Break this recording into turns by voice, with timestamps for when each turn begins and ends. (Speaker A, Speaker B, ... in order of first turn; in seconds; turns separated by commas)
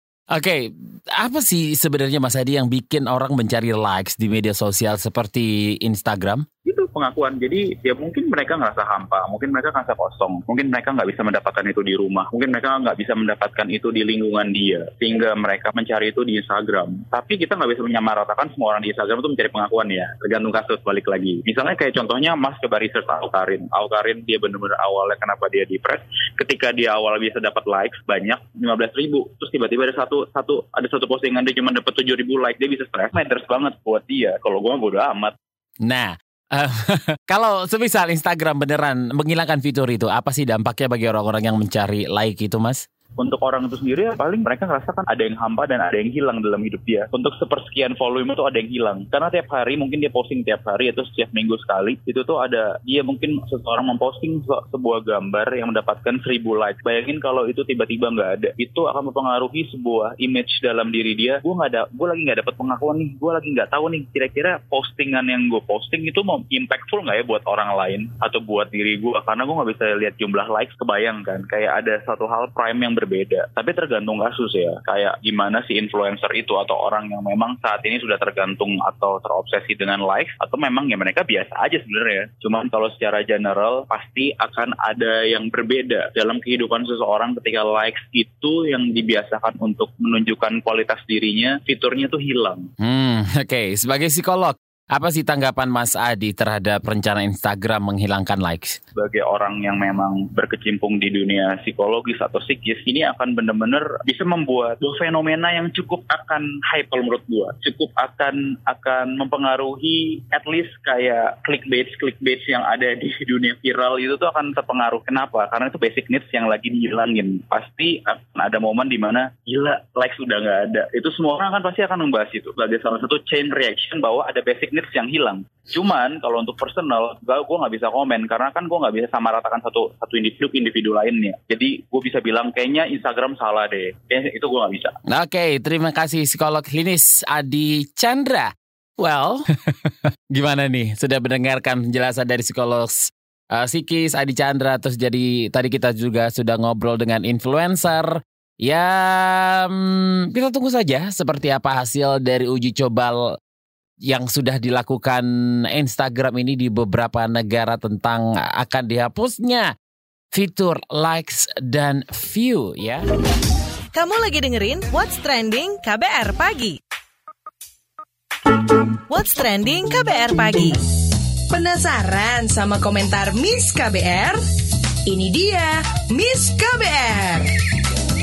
Speaker A: 0.3-6.4, Speaker B: 6.7-35.3, Speaker A: 35.8-42.8, Speaker B: 43.2-92.7, Speaker A: 92.8-98.8, Speaker B: 99.0-134.9, Speaker A: 135.1-153.3, Speaker A: 154.0-159.7, Speaker A: 160.3-163.1, Speaker C: 163.9-166.8, Speaker C: 169.1-170.8, Speaker D: 171.5-174.4, Speaker D: 175.0-177.6